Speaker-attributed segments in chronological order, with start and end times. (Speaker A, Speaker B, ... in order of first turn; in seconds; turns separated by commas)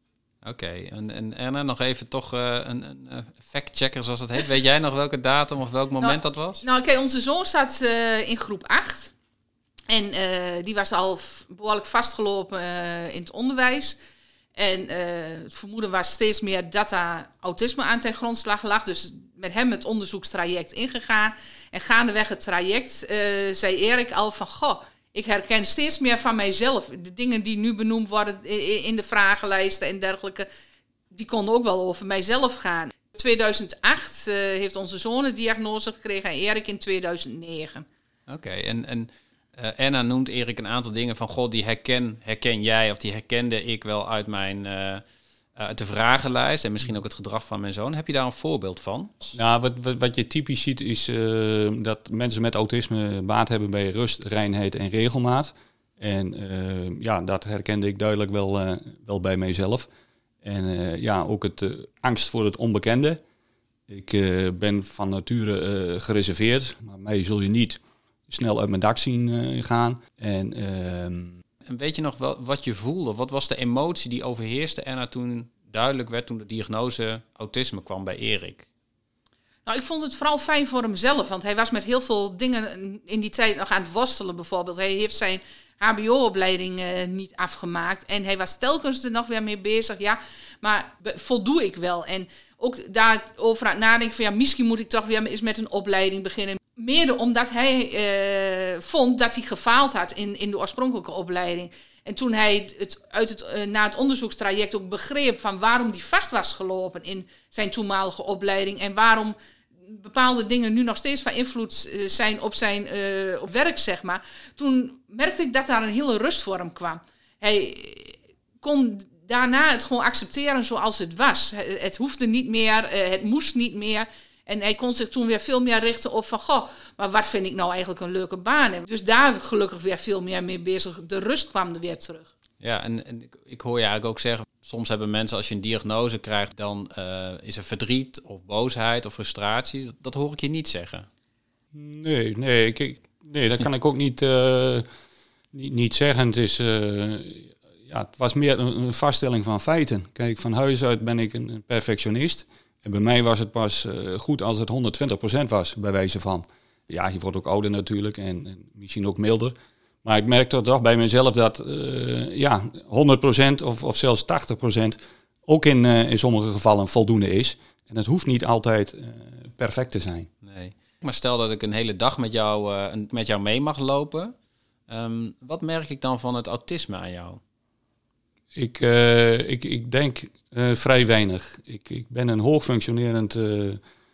Speaker A: 0.4-6.6, Speaker B: 6.0-9.1, Speaker B: 9.9-14.0, Speaker B: 14.6-30.5, Speaker B: 31.1-37.9, Speaker A: 38.3-45.0, Speaker A: 45.5-49.4, Speaker C: 49.3-59.9, Speaker C: 60.4-63.2, Speaker C: 63.9-71.4, Speaker A: 71.6-78.7, Speaker B: 79.7-109.3, Speaker B: 109.9-132.3, Speaker A: 132.6-141.1, Speaker C: 141.7-144.8, Speaker C: 145.5-170.3, Speaker A: 170.4-174.3, Speaker A: 174.9-177.4, Speaker C: 178.5-183.8